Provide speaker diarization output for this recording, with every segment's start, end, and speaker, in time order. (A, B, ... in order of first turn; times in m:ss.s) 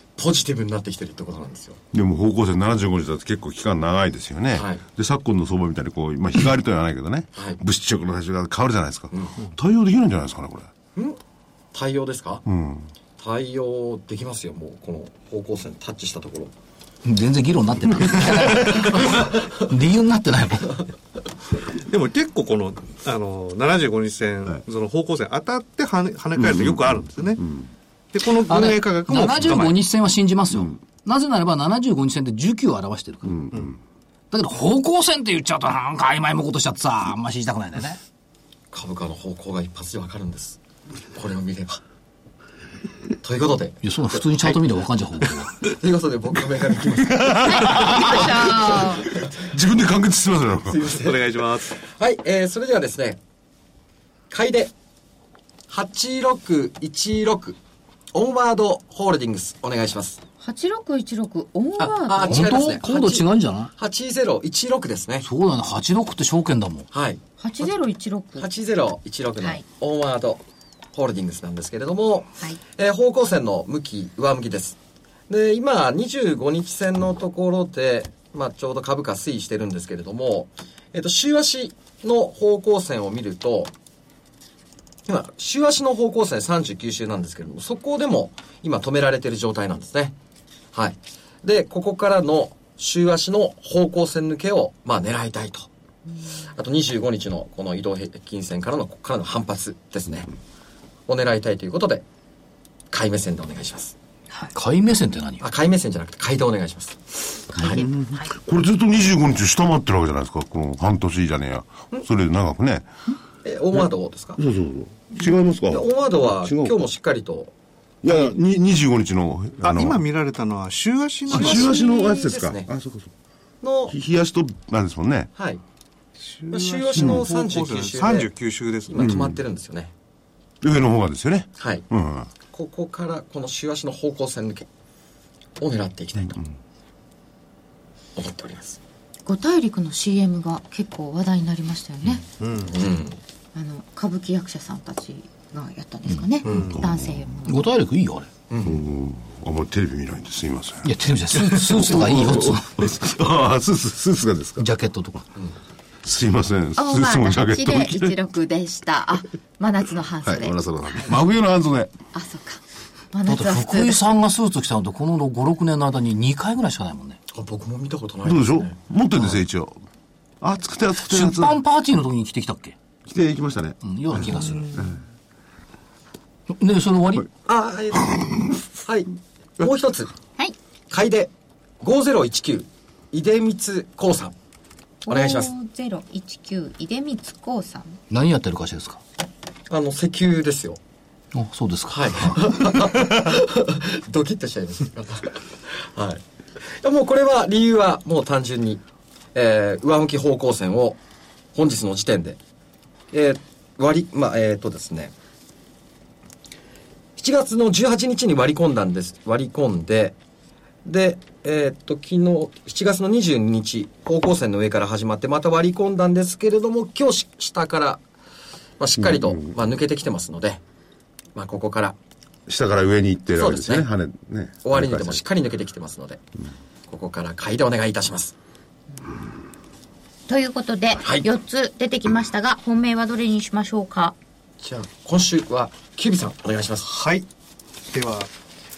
0:00.2-0:01.8 A
0:01.9-0:10.7 B
0:04.5-0:04.8 A
0:07.3-0:07.6 A
0:09.1-0:09.4 A
0:11.7-0:12.4 A
0:12.4-0:12.9 B
0:13.2-0:16.5 A
0:17.0-0:20.9 C
0:18.2-0:19.3 A
0:21.9-0:27.4 D
0:26.4-0:27.7 B
0:28.1-0:29.8 D
0:28.4-0:33.4 C
0:33.2-0:33.7 B
0:34.3-0:38.0 C
0:38.7-0:40.6 A
0:41.1-0:41.8 A
0:43.2-0:44.6 A
0:43.8-0:45.6 C
0:45.6-0:49.3 A
0:47.0-0:48.4 B
0:47.4-0:49.1 E
0:49.2-0:50.8 B
0:50.7-0:53.2 A
0:50.9-0:51.8 D
0:54.3-0:54.7 A
0:55.7-0:57.6 A
0:58.1-1:00.2 A
1:00.4-1:03.2 E
1:01.8-1:03.2 A
1:02.2-1:03.7 C
1:03.8-1:05.3 A
1:05.2-1:06.9 C
1:06.9-1:07.7 A
1:07.4-1:08.5 E
1:08.4-1:10.4 A
1:10.9-1:14.8 A
1:15.3-1:23.7 A
1:25.1-1:30.1 A
1:30.7-1:35.7 A
1:36.4-1:40.3 A
1:41.1-1:42.0 A
1:42.9-1:43.9 A
1:44.5-1:45.4 C
1:45.4-1:47.0 A
1:47.5-1:48.3 E
1:47.5-1:47.8 A
1:47.6-1:52.9 B
1:53.4-1:54.4 A
1:54.4-1:56.8 B
1:55.7-1:57.5 A
1:58.0-2:00.0 B
1:59.6-2:01.7 D
2:01.3-2:03.1 B
2:01.3-2:02.7 A
2:01.8-2:02.2 E
2:03.6-2:03.9 A
2:03.9-2:05.3 B
2:05.3-2:05.6 A
2:06.3-2:09.1 D
2:06.5-2:08.3 A
2:07.0-2:07.2 B
2:08.9-2:09.9 A
2:08.9-2:09.4 B
2:10.6-2:12.3 B
2:11.6-2:11.8 A
2:12.5-2:14.7 A
2:15.6-2:16.4 A
2:18.2-2:18.8 A
2:19.2-2:22.2 E
2:22.4-2:22.9 D
2:22.7-2:23.2 A
2:23.5-2:27.7 E
2:26.4-2:26.7 A
2:26.5-2:27.3 B
2:27.4-2:28.3 C
2:28.5-2:28.8 A
2:28.6-2:34.7 B
2:30.8-2:32.9 C
2:34.6-2:35.2 C
2:36.0-2:38.1 B
2:36.8-2:41.1 E
2:40.2-2:41.9 B
2:42.1-2:42.6 E
2:43.1-2:44.0 E
2:43.2-2:47.2 C
2:47.3-2:49.4 A
2:48.2-2:49.8 B
2:50.4-2:51.6 B
2:51.0-2:52.8 C
2:53.0-2:54.9 B
2:53.8-2:54.8 C
2:56.5-2:57.2 C
2:57.4-3:00.1 A
3:00.9-3:04.3 A
3:05.0-3:08.0 E
3:05.1-3:05.5 A
3:08.1-3:09.0 C
3:09.7-3:10.8 A
3:11.3-3:12.5 C
3:11.9-3:18.8 A
3:19.3-3:21.0 A
3:21.5-3:22.4 A
3:23.1-3:25.1 A
3:27.2-3:30.2 A
3:30.8-3:38.0 A
3:38.8-3:40.6 A
3:39.0-3:39.6 B
3:41.3-3:42.0 A
3:42.5-3:45.2 B
3:43.4-3:43.9 A
3:44.6-3:46.2 A
3:46.9-3:48.3 A
3:50.3-3:54.2 E
3:51.0-3:51.3 A
3:54.6-3:56.9 A
3:56.8-3:57.2 D
3:57.9-3:58.3 D